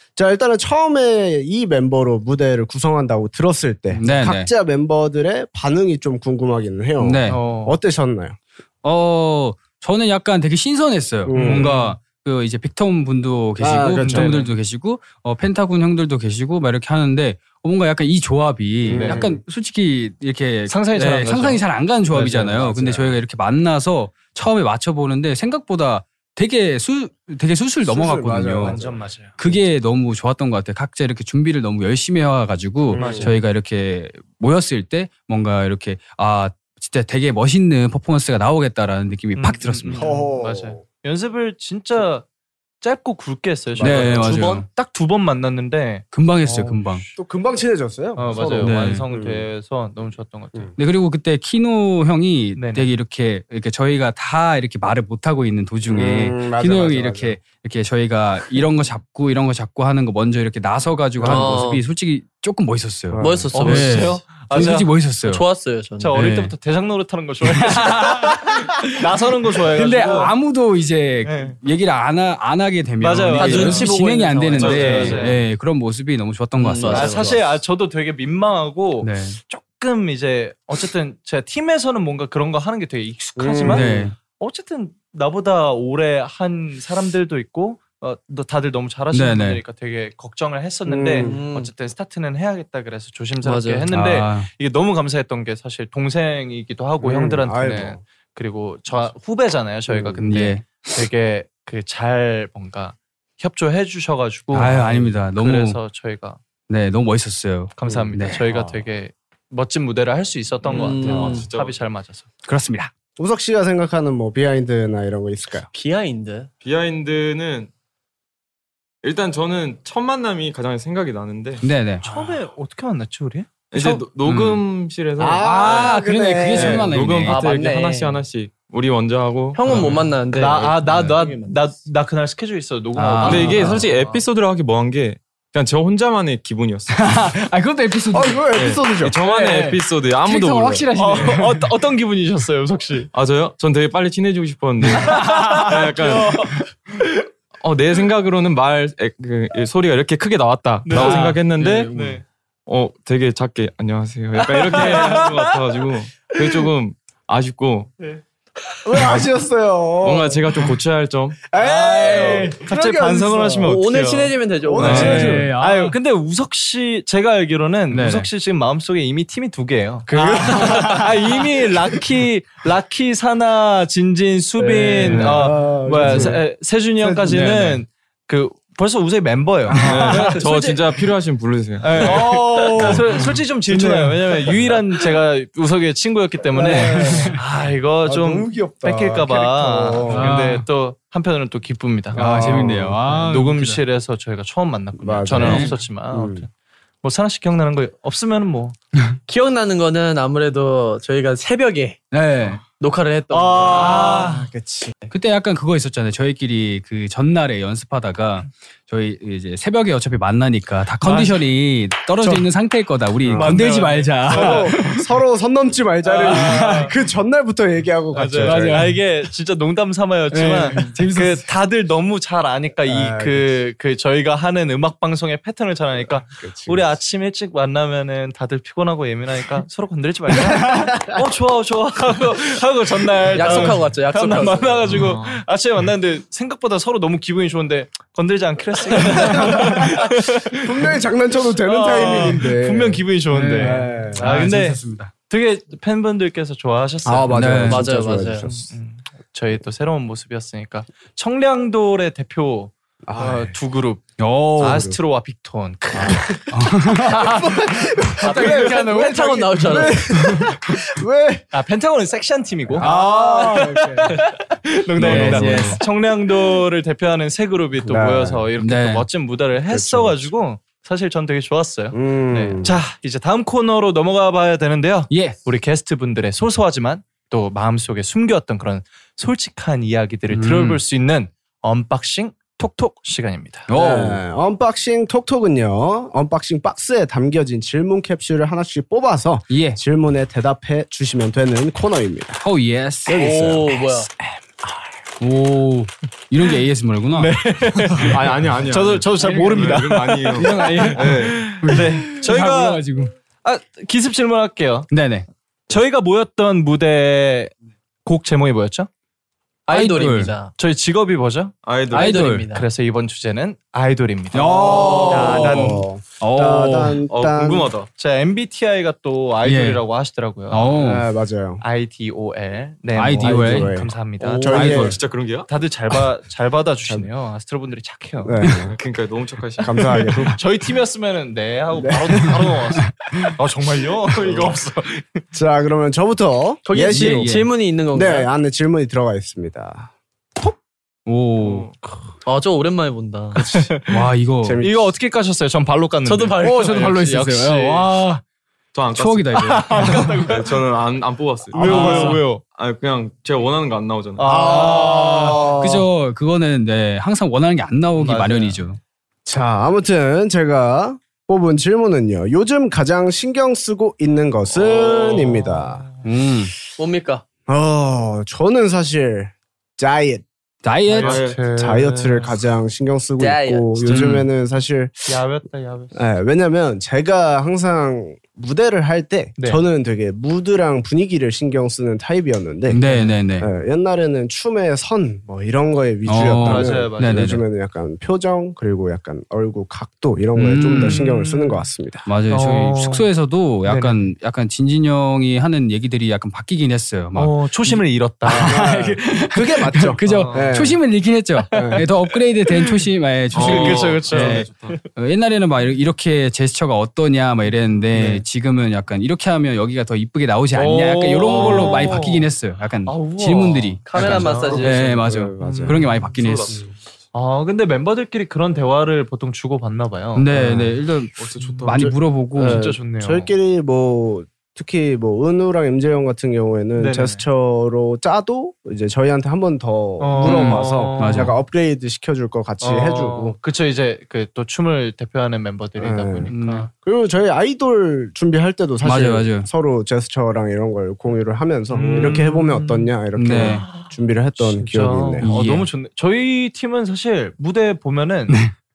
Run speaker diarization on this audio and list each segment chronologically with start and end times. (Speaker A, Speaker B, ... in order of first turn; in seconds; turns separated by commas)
Speaker A: 0.2-8.4, Speaker B: 3.9-4.5, Speaker B: 7.0-7.4, Speaker C: 7.3-7.8, Speaker B: 8.8-28.8, Speaker A: 11.3-11.7, Speaker C: 11.3-12.0, Speaker A: 13.6-14.3, Speaker C: 14.1-14.5, Speaker A: 18.8-19.4, Speaker C: 18.9-19.3, Speaker C: 20.7-22.8, Speaker A: 22.2-23.2, Speaker A: 27.8-29.6, Speaker C: 28.6-29.4, Speaker B: 29.4-40.2, Speaker A: 32.9-33.3, Speaker C: 33.0-33.3, Speaker C: 39.4-42.2, Speaker A: 40.0-40.8, Speaker C: 42.8-47.2, Speaker A: 43.8-44.6, Speaker B: 43.8-44.7, Speaker B: 46.1-47.0, Speaker A: 47.2-49.5, Speaker C: 48.1-50.7, Speaker B: 48.6-49.0, Speaker B: 50.8-65.5, Speaker C: 52.6-52.9, Speaker A: 55.9-57.4, Speaker A: 61.2-61.6, Speaker D: 61.2-61.8, Speaker A: 63.1-63.5, Speaker D: 63.2-66.2, Speaker C: 63.5-65.0, Speaker C: 66.0-70.3, Speaker B: 66.2-66.5, Speaker B: 67.4-69.1, Speaker B: 69.6-77.4, Speaker C: 71.2-71.6, Speaker C: 73.0-74.0, Speaker D: 73.3-75.3, Speaker C: 74.5-75.4, Speaker E: 74.7-74.9, Speaker D: 76.6-77.3, Speaker C: 76.9-106.4, Speaker B: 79.0-79.4, Speaker A: 83.4-84.1, Speaker B: 83.7-84.2, Speaker B: 89.1-89.6, Speaker A: 90.9-91.4, Speaker D: 91.2-91.7, Speaker D: 93.4-93.9, Speaker B: 93.9-94.5, Speaker A: 97.0-98.0, Speaker A: 99.9-100.2, Speaker B: 100.2-100.8, Speaker B: 104.5-105.8, Speaker B: 106.7-108.5, Speaker C: 107.8-112.3, Speaker E: 110.7-111.8, Speaker D: 110.7-111.5, Speaker B: 112.5-112.9, Speaker A: 113.2-115.7, Speaker D: 115.7-116.5, Speaker E: 116.6-117.7, Speaker E: 119.0-121.6, Speaker B: 121.6-122.1, Speaker C: 122.0-123.7, Speaker E: 123.7-126.0, Speaker B: 124.2-124.6, Speaker A: 125.2-127.1, Speaker B: 125.4-127.4, Speaker E: 126.5-130.1, Speaker D: 127.3-128.2, Speaker D: 129.6-131.6, Speaker C: 129.8-134.2, Speaker B: 130.9-131.1, Speaker B: 133.0-133.8, Speaker E: 133.2-136.9, Speaker B: 136.9-138.6, Speaker A: 138.1-139.2, Speaker E: 138.6-141.4, Speaker B: 139.2-141.7, Speaker C: 140.9-143.1, Speaker E: 143.1-146.6, Speaker B: 144.9-145.8, Speaker C: 145.0-146.7, Speaker E: 147.6-152.1, Speaker C: 150.8-152.2, Speaker B: 151.0-152.2, Speaker E: 152.7-157.9, Speaker C: 154.7-155.5, Speaker A: 158.8-160.5, Speaker E: 160.0-161.4, Speaker A: 161.5-163.7, Speaker C: 161.6-164.3, Speaker B: 162.0-162.6, Speaker D: 163.6-165.3, Speaker E: 163.9-164.3, Speaker A: 164.6-165.5, Speaker E: 164.8-165.3, Speaker B: 164.8-165.9, Speaker C: 165.0-180.8, Speaker B: 167.9-168.3, Speaker A: 170.1-171.2, Speaker B: 170.3-171.1, Speaker A: 174.6-176.4, Speaker B: 175.0-175.4, Speaker B: 176.0-176.3, Speaker A: 177.0-177.5, Speaker B: 177.2-177.8, Speaker B: 179.7-180.4, Speaker E: 179.9-182.3, Speaker C: 181.8-192.5, Speaker A: 182.0-184.7, Speaker A: 186.5-187.4, Speaker B: 186.7-187.4, Speaker A: 188.0-190.3, Speaker B: 190.1-190.7, Speaker A: 192.1-193.0, Speaker B: 192.1-193.8, Speaker C: 193.1-196.5, Speaker A: 195.0-196.5, Speaker B: 195.3-195.7, Speaker C: 197.0-198.8, Speaker D: 199.3-202.0, Speaker B: 202.1-202.6, Speaker D: 202.7-204.1, Speaker C: 203.3-204.5, Speaker A: 203.7-205.0, Speaker B: 203.7-204.4, Speaker B: 205.1-215.1, Speaker C: 211.0-211.3, Speaker A: 213.2-218.9, Speaker C: 213.3-214.7, Speaker C: 216.0-216.9, Speaker B: 216.2-216.9, Speaker C: 218.1-240.9, Speaker B: 218.3-219.0, Speaker B: 220.3-221.5, Speaker A: 222.9-223.6, Speaker A: 226.4-227.0, Speaker A: 230.6-231.2, Speaker D: 233.3-235.0, Speaker E: 234.9-235.4, Speaker A: 239.0-244.3, Speaker C: 241.6-247.8, Speaker B: 243.3-245.1, Speaker A: 247.1-248.7, Speaker B: 247.3-247.9, Speaker D: 247.7-248.5, Speaker C: 248.4-256.4, Speaker A: 253.1-253.6, Speaker B: 254.2-254.9, Speaker A: 254.6-255.0, Speaker B: 256.1-257.6, Speaker A: 257.2-261.5, Speaker C: 258.2-259.9, Speaker D: 258.2-260.1, Speaker C: 261.5-283.7, Speaker A: 262.8-264.2, Speaker B: 262.8-263.8, Speaker B: 265.0-265.8, Speaker A: 265.0-265.8, Speaker A: 267.8-268.4, Speaker B: 268.6-269.1, Speaker A: 269.7-270.3, Speaker A: 271.9-272.8, Speaker B: 275.1-275.4, Speaker B: 280.3-280.8, Speaker B: 283.7-284.2, Speaker A: 283.7-292.4, Speaker B: 289.5-289.8, Speaker B: 292.4-293.2, Speaker A: 293.1-294.0, Speaker D: 293.1-294.1, Speaker B: 295.2-297.3, Speaker C: 297.1-302.8, Speaker E: 298.0-301.6, Speaker B: 299.2-299.8, Speaker B: 300.3-303.1, Speaker C: 303.4-304.9, Speaker B: 304.9-305.3, Speaker C: 305.7-307.5, Speaker C: 308.1-308.9, Speaker D: 309.7-310.5, Speaker B: 309.7-310.4, Speaker C: 310.6-311.6, Speaker E: 311.6-312.3, Speaker B: 311.9-312.5, Speaker D: 311.9-312.6, Speaker C: 312.5-315.9, Speaker B: 314.3-317.0, Speaker A: 314.4-317.7, Speaker E: 317.1-317.9, Speaker C: 318.0-320.7, Speaker B: 319.4-319.8, Speaker B: 320.5-321.1, Speaker A: 320.8-321.6, Speaker C: 321.6-324.9, Speaker B: 322.9-323.8, Speaker A: 323.2-325.0, Speaker B: 324.4-325.0, Speaker E: 324.6-325.5, Speaker C: 325.5-328.5, Speaker A: 328.2-328.8, Speaker E: 328.7-330.2, Speaker A: 329.6-330.4, Speaker C: 330.3-335.2, Speaker A: 331.8-332.3, Speaker B: 332.8-333.3, Speaker E: 334.2-334.6, Speaker A: 335.3-339.9, Speaker D: 336.7-338.3, Speaker B: 336.8-337.5, Speaker B: 341.1-341.7, Speaker E: 341.4-341.7, Speaker D: 342.2-343.5, Speaker A: 343.4-343.8, Speaker C: 343.4-344.0, Speaker B: 343.9-344.6, Speaker A: 344.4-344.9, Speaker C: 344.6-348.0, Speaker D: 346.1-347.3, Speaker B: 346.4-348.2, Speaker E: 348.7-354.5, Speaker B: 348.9-350.3, Speaker C: 349.4-350.5, Speaker C: 351.5-352.4, Speaker A: 351.7-352.2, Speaker B: 351.7-352.2, Speaker C: 354.2-355.5, Speaker A: 354.2-355.9, Speaker B: 354.6-358.8, Speaker C: 358.0-358.6, Speaker A: 359.2-365.8, Speaker C: 364.6-366.0, Speaker B: 366.0-366.5, Speaker D: 366.8-367.2, Speaker A: 367.5-370.2, Speaker B: 370.6-371.2, Speaker C: 370.9-372.3, Speaker E: 370.9-371.4, Speaker A: 371.5-375.2, Speaker D: 373.2-374.0, Speaker C: 373.9-374.2, Speaker B: 373.9-374.2, Speaker C: 375.1-376.0, Speaker A: 375.9-392.1, Speaker B: 382.7-383.5, Speaker B: 386.1-387.4, Speaker C: 386.2-387.4, Speaker B: 390.4-391.1, Speaker C: 390.7-391.7, Speaker B: 392.1-416.6, Speaker C: 392.3-393.1, Speaker C: 393.7-394.1, Speaker C: 397.1-398.6, Speaker A: 398.4-400.8, Speaker C: 400.1-400.6, Speaker C: 401.5-402.8, Speaker A: 401.5-401.9, Speaker E: 403.3-404.8, Speaker C: 403.3-404.5, Speaker C: 410.5-412.3, Speaker E: 411.3-412.0, Speaker C: 412.9-414.7, Speaker D: 413.9-414.9, Speaker A: 414.3-415.8, Speaker C: 415.4-416.1, Speaker E: 416.1-416.7, Speaker C: 417.1-420.3, Speaker B: 420.1-422.7, Speaker A: 420.3-420.8, Speaker E: 421.2-421.9, Speaker A: 421.8-433.4, Speaker C: 422.4-423.3, Speaker C: 426.8-427.2, Speaker C: 430.0-431.4, Speaker B: 430.2-431.4, Speaker C: 432.6-436.7, Speaker A: 435.8-436.3, Speaker B: 436.3-436.7, Speaker A: 436.8-445.3, Speaker B: 438.8-439.5, Speaker C: 441.7-448.4, Speaker B: 441.9-442.2, Speaker B: 443.1-443.7, Speaker B: 445.2-445.7